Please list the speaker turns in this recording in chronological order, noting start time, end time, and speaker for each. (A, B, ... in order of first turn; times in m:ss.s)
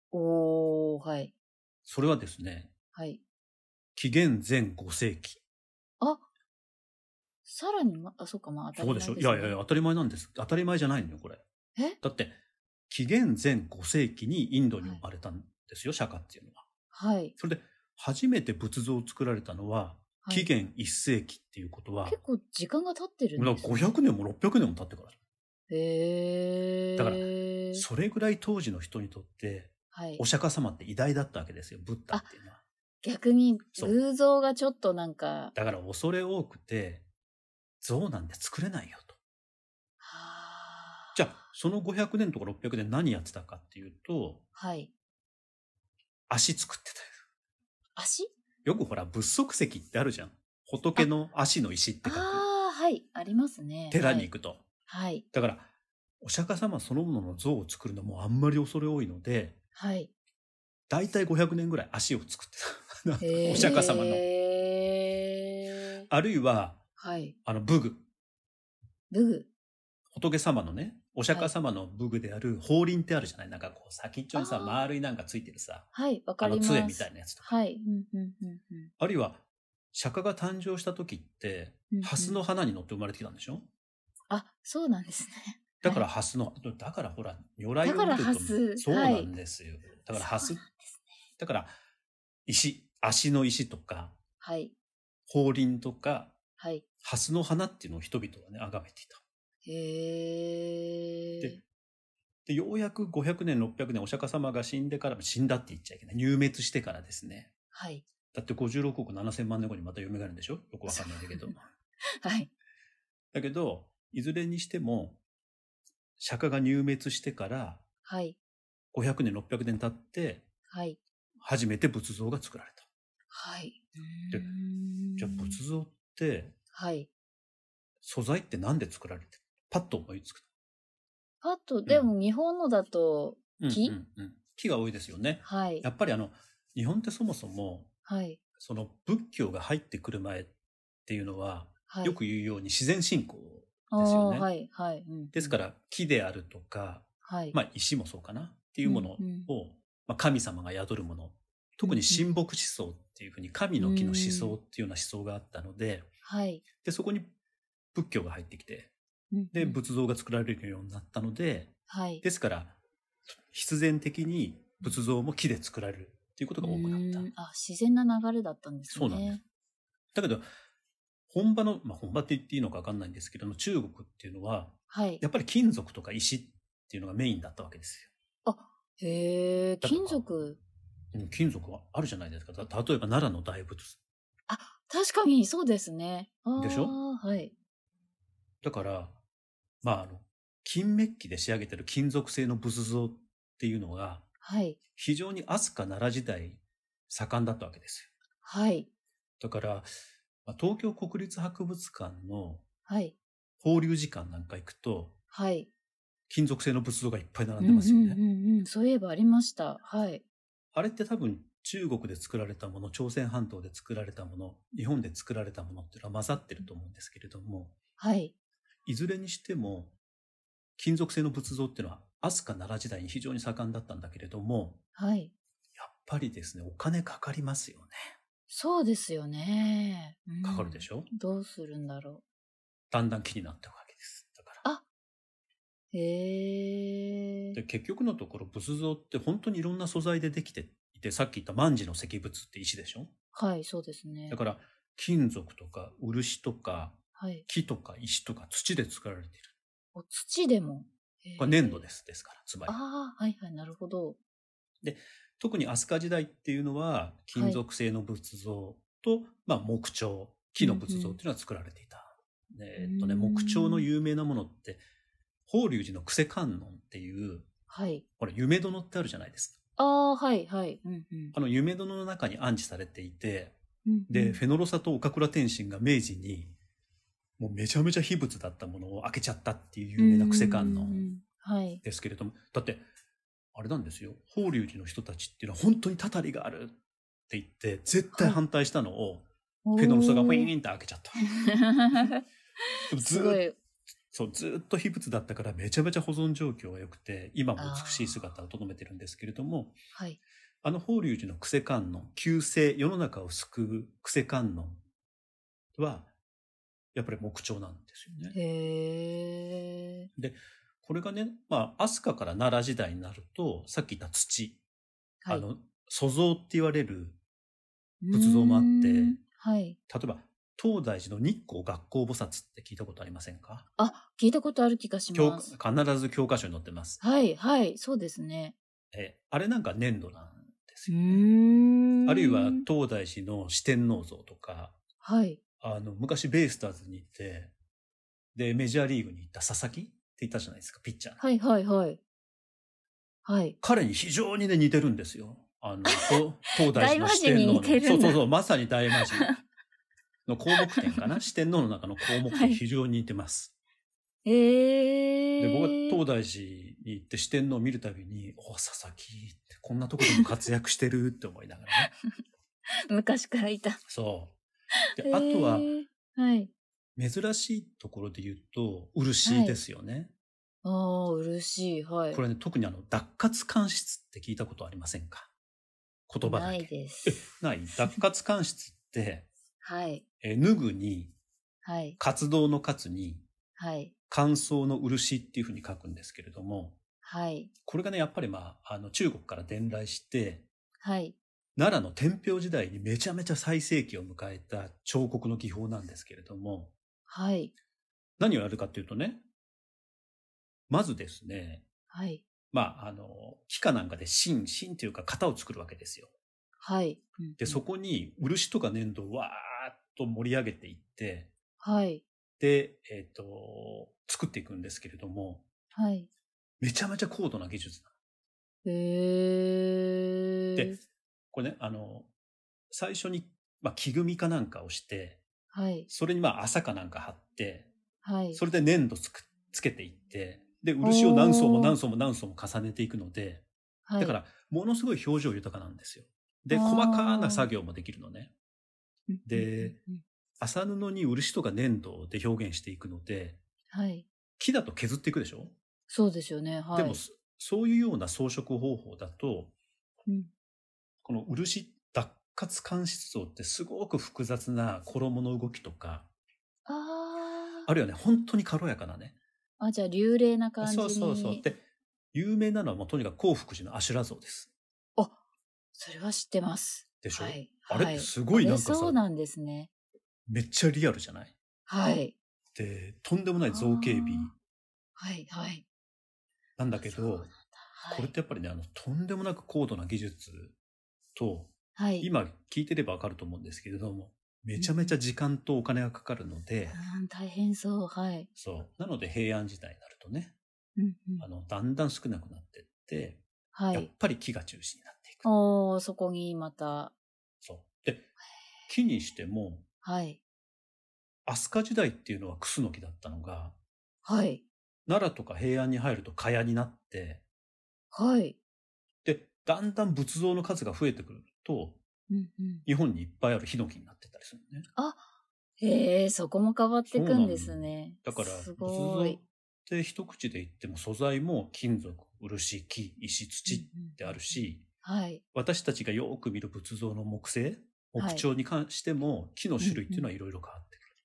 0:00.1-0:01.3 A
0:01.9-0:02.7 B
0:02.9-0:03.2 A
0:04.0-0:05.4 B
0:06.0-0:06.2 A
0:07.4-0:09.6 A
0:08.8-0:11.4 B
0:12.0-0:12.4 B
0:12.9-0:16.7 B
0:16.9-0:17.4 A
0:17.4-0:22.2 B
0:20.2-0:20.5 A
0:22.1-0:24.0 A
0:23.4-0:25.2 B
0:25.7-0:27.8 A
0:27.0-0:32.6 B
0:29.9-0:30.2 A
0:33.0-0:35.6 A
0:35.6-0:37.1 B
0:37.8-0:39.2 B
0:40.0-0:41.4 A
0:41.2-0:44.4 B
0:44.6-0:44.9 A
0:46.3-0:47.2 B
0:48.0-0:48.3 A
0:48.6-0:52.4 B
0:52.0-0:54.3 A
0:53.9-0:54.6 B
0:54.9-0:55.2 A
0:55.3-0:55.7 B
0:56.2-0:59.6 B
0:59.8-1:00.1 A
1:00.9-1:04.2 B
1:03.2-1:06.1 A
1:06.1-1:06.8 B
1:07.0-1:07.4 A
1:07.4-1:08.1 B
1:09.1-1:09.5 A
1:10.1-1:15.9 B
1:14.3-1:14.9 A
1:15.9-1:18.9 A
1:16.4-1:17.5 B
1:19.0-1:23.7 B
1:21.9-1:22.4 A
1:24.3-1:26.1 A
1:25.8-1:30.6 B
1:27.8-1:29.3 A
1:30.1-1:31.0 A
1:31.4-1:31.8 B
1:32.5-1:34.2 B
1:34.4-1:34.7 A
1:35.3-1:36.4 B
1:36.6-1:36.8 A
1:37.0-1:39.2 B
1:39.6-1:41.6 A
1:42.5-1:47.5 B
1:47.7-1:48.0 A
1:48.3-1:51.6 B
1:50.9-1:51.5 A
1:52.2-1:52.5 A
1:53.3-1:55.2 B
1:56.2-1:57.8 B
1:58.0-1:58.4 A
1:58.9-2:00.5 B
2:00.7-2:01.0 A
2:01.4-2:02.8 B
2:03.3-2:05.6 A
2:05.2-2:06.6 B
2:06.7-2:07.1 A
2:08.0-2:10.5 B
2:11.4-2:14.0 A
2:11.9-2:12.1 B
2:13.6-2:17.9 B
2:15.4-2:15.9 A
2:18.0-2:18.4 A
2:18.6-2:20.6 B
2:21.1-2:24.5 B
2:21.9-2:22.2 A
2:23.9-2:25.6 A
2:25.3-2:36.1 B
2:27.2-2:27.6 A
2:28.8-2:29.5 A
2:31.8-2:32.3 A
2:33.8-2:34.6 A
2:36.2-2:36.6 A
2:36.8-2:37.3 B
2:37.9-2:38.9 B
2:39.3-2:39.8 A
2:39.5-2:42.8 B
2:41.9-2:42.2 A
2:43.5-2:47.3 B
2:46.6-2:49.4 A
2:48.9-2:49.4 B
2:50.1-2:50.5 B
2:51.3-2:58.1 B
2:54.9-2:55.2 A
2:58.4-3:00.6 A
2:59.8-3:00.4 B
3:01.1-3:04.0 B
3:04.5-3:07.5 A
3:06.6-3:07.0 B
3:08.6-3:09.2 B
3:09.8-3:14.3 B
3:14.4-3:14.8 A
3:15.0-3:18.1 B
3:18.4-3:18.9 A
3:19.4-3:19.9 B
3:20.4-3:22.6 B
3:22.9-3:23.2 A
3:23.6-3:25.2 B
3:25.3-3:25.7 A
3:26.3-3:28.2 B
3:27.6-3:30.2 A
3:30.7-3:37.8 B
3:38.0-3:38.3 A
3:38.9-3:40.0 B
3:40.8-3:44.8 B
3:45.0-3:45.3 A
3:45.8-3:48.1 B
3:48.5-3:52.2 A
3:50.4-3:51.1 B
3:52.9-3:54.6 B
3:55.9-3:57.6 A
3:57.6-4:03.1 B
4:03.3-4:04.4 A
4:04.3-4:09.5 B
4:07.2-4:07.5 A
4:09.9-4:11.9 A
4:11.4-4:12.8 B
4:12.7-4:14.2 A
4:14.8-4:24.8 B
4:17.3-4:17.6 A
4:20.6-4:21.2 A
4:22.8-4:23.9 A
4:25.5-4:27.5 B
4:27.7-4:28.0 A
4:28.2-4:29.6 B
4:29.8-4:31.4 A
4:31.3-4:33.6 B
4:33.8-4:34.4 A
4:34.1-4:36.6 B
4:37.4-4:41.1 B
4:40.0-4:41.8 A
4:41.8-4:42.9 B
4:43.5-4:51.3 B
4:48.2-4:48.4 A
4:49.6-4:50.5 A
4:51.2-4:53.6 A
4:52.9-4:53.4 B
4:54.1-4:59.8 B
4:57.6-4:58.3 A
4:59.9-5:00.2 A
5:00.6-5:04.8 B
5:05.8-5:06.1 B
5:06.9-5:08.4 B
5:08.3-5:10.1 A
5:10.2-5:14.6 B
5:15.2-5:15.5 A
5:15.3-5:17.2 B
5:18.0-5:19.8 A
5:18.1-5:19.2 B
5:19.9-5:23.7 B
5:23.8-5:25.5 A
5:25.1-5:27.0 B
5:27.0-5:28.6 A
5:28.9-5:31.3 B
5:30.9-5:32.7 A
5:32.0-5:34.8 B
5:35.0-5:35.4 A
5:35.6-5:37.6 B
5:38.3-5:41.2 B
5:41.2-5:42.0 A
5:43.2-5:43.6 A
5:43.6-5:49.4 B
5:45.9-5:48.2 A
5:50.3-5:53.5 B
5:50.6-5:51.0 A
5:52.3-5:52.6 A
5:54.2-5:56.0 A
5:55.4-6:01.9 B
6:00.0-6:00.3 A
6:01.8-6:02.1 A
6:02.9-6:03.8 A
6:03.9-6:04.4 B
6:05.0-6:06.5 A
6:05.0-6:05.7 B
6:07.0-6:10.1 B
6:09.2-6:09.6 A
6:10.6-6:12.2 A
6:12.1-6:15.3 B
6:16.1-6:19.3 B
6:16.2-6:17.2 A
6:19.6-6:20.0 A
6:20.2-6:21.2 B
6:21.6-6:22.0 A
6:22.0-6:23.3 B
6:23.6-6:23.9 A
6:24.1-6:26.8 B
6:27.0-6:27.5 A
6:27.7-6:30.5 B
6:30.8-6:31.2 A
6:31.6-6:36.7 B
6:37.1-6:37.5 A
6:38.2-6:39.2 B
6:40.7-6:41.7 B
6:41.9-6:42.2 A
6:42.5-6:46.1 B
6:46.6-6:47.6 A
6:47.4-6:51.3 B
6:51.6-6:52.0 A
6:52.4-6:55.5 B
6:55.7-6:56.1 A
6:56.6-6:57.9 B
6:58.6-7:00.8 A
7:01.3-7:02.1 B
7:02.7-7:05.2 B
7:05.5-7:05.9 A
7:05.9-7:07.7 B
7:08.0-7:08.4 A
7:08.3-7:13.5 B
7:10.8-7:11.8 A
7:13.9-7:14.2 A
7:14.0-7:18.3 B
7:16.5-7:17.5 A
7:19.1-7:20.0 A
7:19.3-7:19.8 B
7:20.4-7:23.4 B
7:23.7-7:24.1 A
7:24.4-7:25.6 B
7:25.9-7:27.0 A
7:26.7-7:29.6 B
7:31.0-7:36.1 B
7:36.7-7:37.7 A
7:37.7-7:39.2 B
7:39.6-7:41.5 A
7:40.6-7:41.6 B
7:42.1-7:44.5 B
7:45.7-7:49.7 A
7:47.0-7:49.0 B
7:50.3-7:51.4 B
7:51.7-7:52.2 A
7:52.6-7:54.4 B
7:53.5-7:54.3 A
7:55.0-7:55.6 A
7:56.6-7:57.3 B
7:56.7-7:58.1 A
7:57.9-8:00.6 B
8:01.2-8:06.8 B
8:01.8-8:02.1 A
8:04.6-8:05.0 A
8:06.7-8:08.3 A
8:08.4-8:10.4 B
8:10.8-8:11.3 A
8:11.2-8:15.3 B
8:13.5-8:13.9 A
8:15.2-8:17.0 A
8:17.4-8:18.1 B
8:18.7-8:19.6 B
8:19.8-8:20.2 A
8:21.3-8:23.6 B
8:24.0-8:24.4 A
8:24.9-8:27.2 B
8:27.9-8:28.4 A
8:29.0-8:31.8 B
8:32.1-8:32.6 A
8:32.7-8:34.7 B
8:34.8-8:35.0 A
8:35.6-8:39.2 A
8:36.9-8:44.6 B
8:43.4-8:45.2 A
8:45.3-8:50.9 B
8:48.0-8:48.3 A
8:49.6-8:50.1 A